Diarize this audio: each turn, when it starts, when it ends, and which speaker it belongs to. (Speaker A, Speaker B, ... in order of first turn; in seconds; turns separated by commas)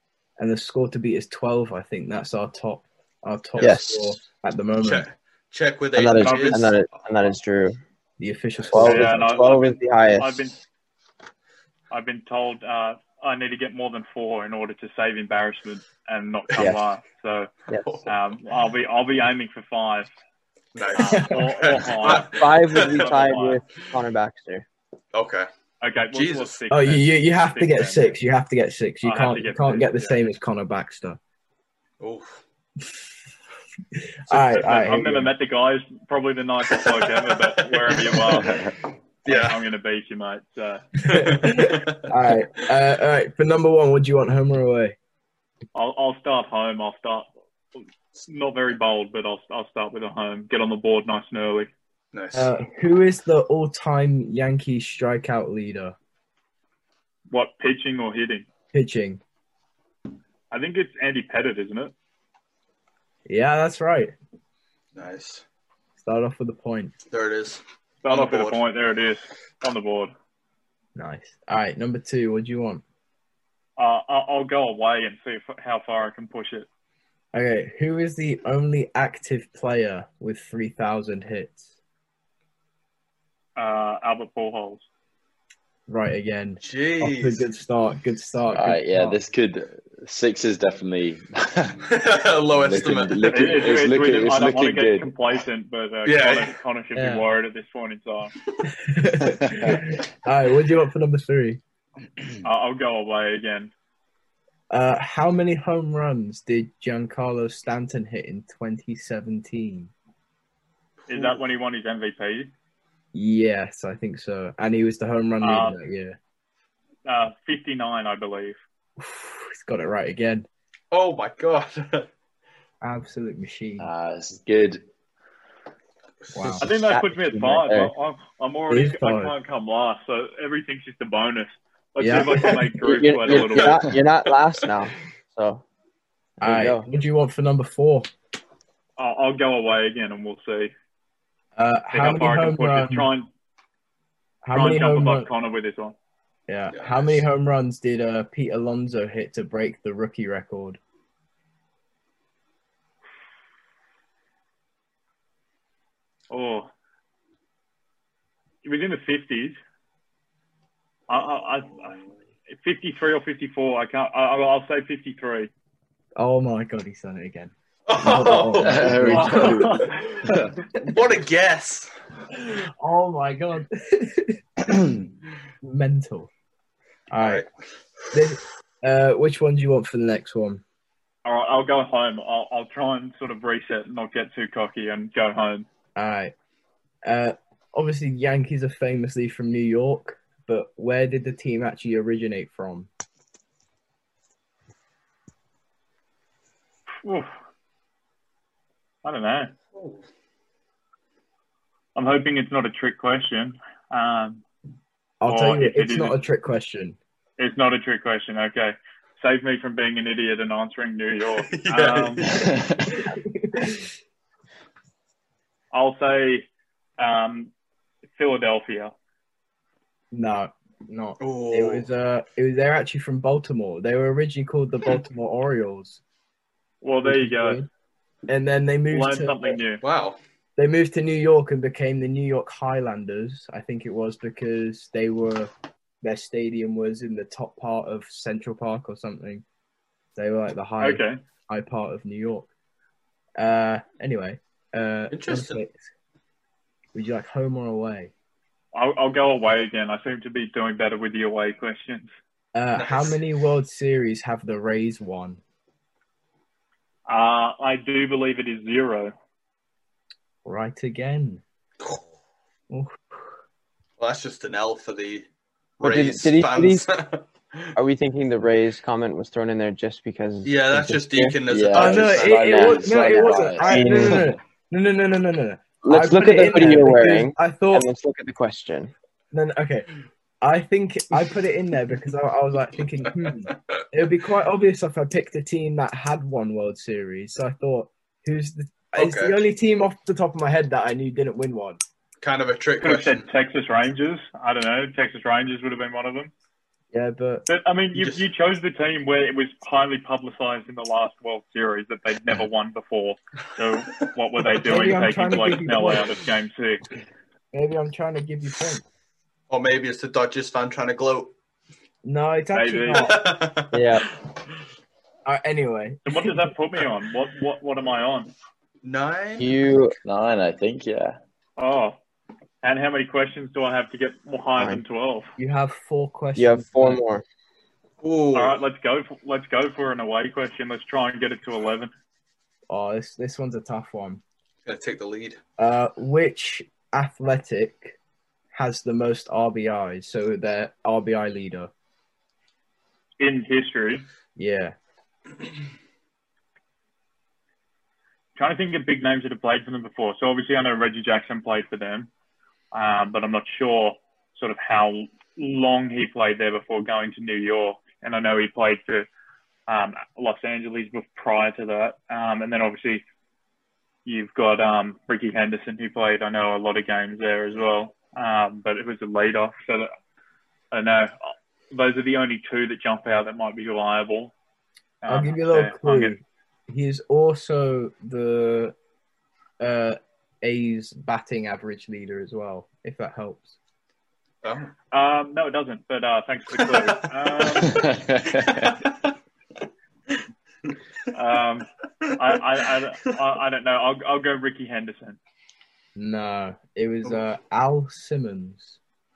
Speaker A: 0.4-5.1, Speaker B: 3.6-4.2, Speaker C: 4.8-7.0, Speaker B: 6.0-7.8, Speaker D: 6.2-6.7, Speaker A: 8.2-9.4, Speaker C: 8.6-8.9, Speaker B: 8.7-10.4, Speaker D: 8.8-10.6, Speaker D: 11.9-17.5, Speaker D: 18.1-20.1, Speaker C: 20.8-23.2, Speaker D: 20.9-23.6, Speaker B: 22.1-24.7, Speaker C: 25.1-25.5, Speaker D: 25.8-28.2, Speaker C: 26.1-26.6, Speaker A: 26.7-31.2, Speaker D: 29.0-30.2, Speaker C: 32.0-32.4, Speaker A: 34.3-35.3, Speaker D: 34.3-38.6, Speaker C: 37.5-38.7, Speaker C: 39.2-39.6, Speaker D: 39.3-41.5, Speaker C: 41.0-42.0, Speaker A: 41.2-45.0, Speaker D: 45.8-47.3, Speaker D: 48.3-51.7, Speaker C: 52.1-52.5, Speaker A: 52.3-56.0, Speaker D: 57.3-58.5, Speaker A: 58.7-59.2, Speaker D: 60.5-61.9, Speaker A: 63.3-64.1, Speaker C: 64.9-65.4, Speaker A: 66.0-66.9, Speaker C: 67.1-68.6, Speaker D: 68.0-70.1, Speaker A: 71.0-72.8, Speaker D: 73.8-76.7, Speaker A: 77.3-81.7, Speaker D: 83.6-84.8, Speaker A: 85.9-89.2, Speaker C: 86.6-87.5, Speaker E: 88.5-91.9, Speaker C: 91.8-93.8, Speaker E: 92.6-95.1, Speaker D: 93.3-98.3, Speaker C: 96.1-96.5, Speaker A: 97.0-97.2, Speaker A: 98.8-101.6, Speaker E: 99.3-99.8, Speaker D: 102.4-103.7, Speaker A: 104.7-109.9, Speaker C: 111.0-111.4, Speaker D: 111.1-112.5, Speaker A: 113.1-116.2, Speaker D: 115.4-115.8, Speaker D: 117.1-118.6, Speaker A: 119.0-120.5, Speaker C: 120.9-122.1, Speaker A: 122.8-123.9, Speaker E: 123.8-124.9, Speaker A: 126.3-126.7, Speaker B: 126.4-127.9, Speaker D: 126.6-133.8, Speaker A: 128.7-129.3, Speaker A: 132.0-132.7, Speaker B: 132.8-135.6, Speaker C: 133.3-134.7, Speaker B: 136.4-136.9, Speaker A: 136.4-138.1, Speaker D: 139.0-140.7, Speaker A: 141.6-143.1, Speaker D: 141.9-143.3, Speaker A: 144.4-145.3, Speaker D: 144.5-146.0, Speaker A: 146.5-150.8, Speaker C: 146.7-147.2, Speaker D: 156.3-156.7, Speaker D: 158.6-159.6, Speaker D: 161.1-165.5, Speaker A: 166.2-169.8, Speaker C: 167.9-170.1, Speaker E: 168.6-170.6, Speaker D: 169.1-170.0, Speaker C: 170.8-172.0, Speaker A: 172.3-174.4, Speaker A: 175.6-176.3, Speaker A: 177.1-177.5, Speaker C: 177.2-177.5, Speaker A: 178.1-180.6, Speaker D: 181.2-185.7, Speaker A: 186.0-186.3, Speaker A: 187.0-192.9, Speaker D: 197.0-197.3, Speaker D: 199.0-199.5, Speaker C: 199.7-200.0, Speaker D: 202.0-204.4, Speaker A: 205.2-207.0, Speaker D: 205.3-206.2, Speaker D: 207.4-212.3, Speaker C: 211.5-212.5, Speaker E: 212.5-212.8, Speaker A: 213.1-213.9, Speaker D: 215.7-216.5, Speaker D: 217.0-217.5, Speaker D: 218.2-218.9, Speaker A: 220.1-226.0, Speaker C: 221.2-221.9, Speaker D: 226.8-227.6, Speaker A: 227.0-227.7, Speaker A: 228.3-229.6, Speaker D: 228.9-229.8, Speaker C: 229.8-230.2, Speaker A: 230.6-235.5, Speaker A: 236.0-239.4, Speaker A: 240.2-242.5, Speaker D: 240.8-241.2, Speaker A: 243.4-245.8, Speaker C: 245.1-245.6, Speaker A: 246.9-248.1, Speaker D: 248.7-252.1, Speaker A: 252.5-255.4, Speaker C: 252.8-253.2, Speaker D: 257.1-259.1, Speaker A: 260.4-261.4, Speaker C: 261.8-262.1, Speaker A: 262.7-263.2, Speaker C: 264.0-265.3, Speaker C: 265.8-267.7, Speaker B: 265.8-266.9, Speaker B: 267.8-274.3, Speaker C: 270.4-272.6, Speaker E: 271.5-274.3, Speaker A: 271.7-277.9, Speaker B: 275.8-278.9, Speaker A: 279.3-279.9, Speaker A: 280.4-291.8, Speaker C: 288.9-289.4, Speaker C: 292.2-293.2, Speaker D: 292.8-296.3, Speaker A: 296.9-297.5, Speaker D: 297.5-306.8, Speaker C: 298.0-298.2, Speaker A: 304.6-306.1, Speaker A: 307.5-308.8, Speaker C: 309.5-311.3, Speaker A: 312.0-313.2, Speaker D: 312.5-313.1, Speaker C: 312.9-314.0, Speaker B: 313.7-314.1, Speaker A: 315.3-316.4, Speaker D: 316.1-318.3, Speaker C: 318.8-319.6, Speaker B: 319.4-320.0, Speaker E: 320.0-321.2, Speaker D: 321.6-322.0, Speaker D: 322.6-325.3, Speaker A: 325.4-327.0, Speaker B: 326.4-327.2, Speaker C: 328.0-328.6, Speaker D: 328.3-331.9, Speaker A: 332.7-334.2, Speaker C: 334.7-335.4, Speaker A: 335.6-338.0, Speaker A: 338.5-341.7, Speaker D: 343.2-344.0, Speaker A: 344.4-344.7, Speaker D: 348.4-352.1, Speaker D: 352.7-359.1, Speaker D: 359.7-363.0, Speaker D: 364.1-369.9, Speaker D: 370.7-374.3, Speaker D: 375.0-376.1, Speaker A: 375.1-378.8, Speaker A: 379.6-383.6, Speaker C: 384.4-384.7, Speaker D: 384.9-387.9, Speaker C: 386.6-387.8, Speaker E: 387.7-388.8, Speaker C: 388.4-389.1, Speaker D: 391.1-395.2, Speaker A: 396.0-398.8